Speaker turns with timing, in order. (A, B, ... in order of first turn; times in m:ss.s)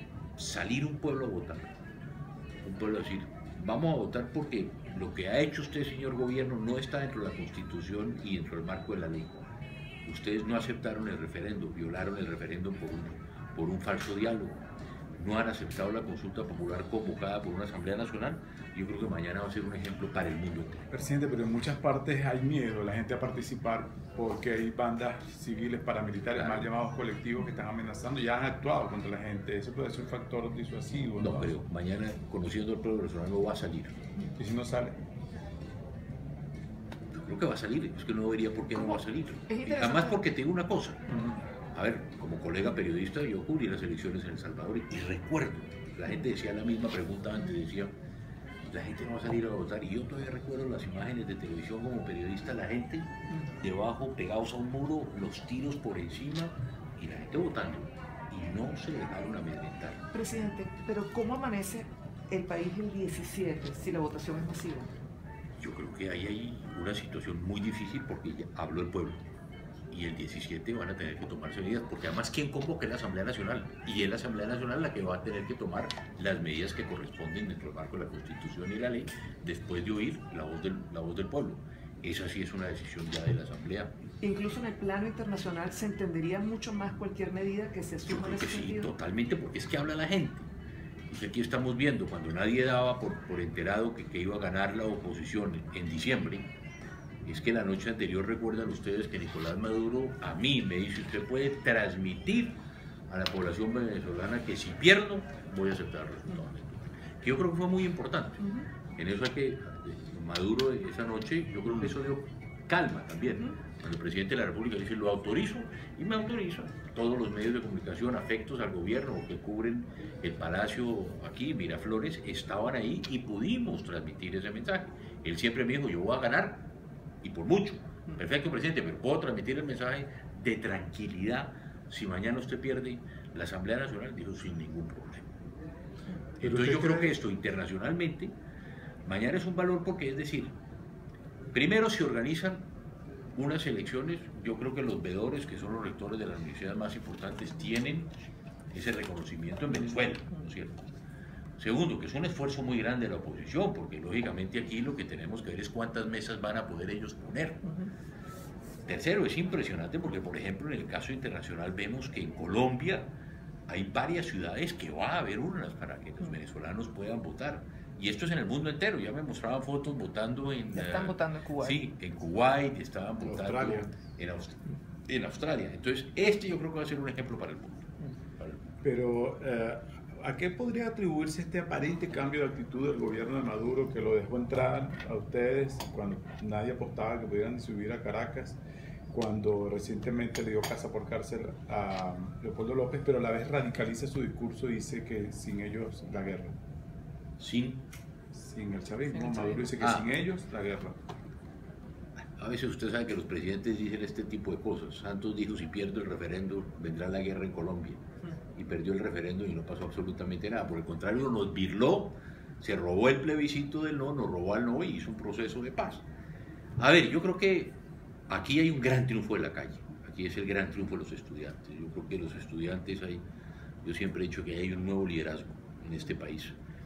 0:00.4-0:01.7 A
0:02.6-0:09.5 A
0:10.0-0:14.6 A
0:15.2-0:20.9 A
0:20.9-0:31.5 B
0:26.3-0:26.7 A
0:31.2-0:34.0 A
0:34.4-0:35.0 B
0:37.1-0:41.0 A
0:39.5-0:40.2 C
0:41.1-0:41.4 B
0:41.7-0:47.9 A
0:48.6-1:00.0 A
1:00.1-1:04.9 C
1:05.6-1:09.2 A
1:09.9-1:23.9 A
1:24.2-1:28.9 C
1:28.0-1:30.5 A
1:31.1-1:36.5 A
1:37.2-1:48.4 A
1:48.4-1:48.7 C
1:49.0-2:06.7 A
2:07.2-2:15.3 A
2:16.4-2:17.2 B
2:16.4-2:18.3 A
2:19.0-2:20.6 A
2:21.5-2:22.7 A
2:23.3-2:28.1 A
2:28.7-2:30.8 A
2:31.6-2:37.7 A
2:38.8-2:43.1 A
2:43.7-2:58.6 A
2:50.7-2:51.8 C
2:53.2-2:53.9 B
2:58.8-3:16.6 B
3:17.4-3:17.9 A
3:18.3-3:21.0 B
3:19.1-3:19.7 C
3:19.8-3:20.1 A
3:22.4-3:28.0 A
3:28.5-3:36.0 A
3:36.8-3:43.2 A
3:43.8-3:46.6 A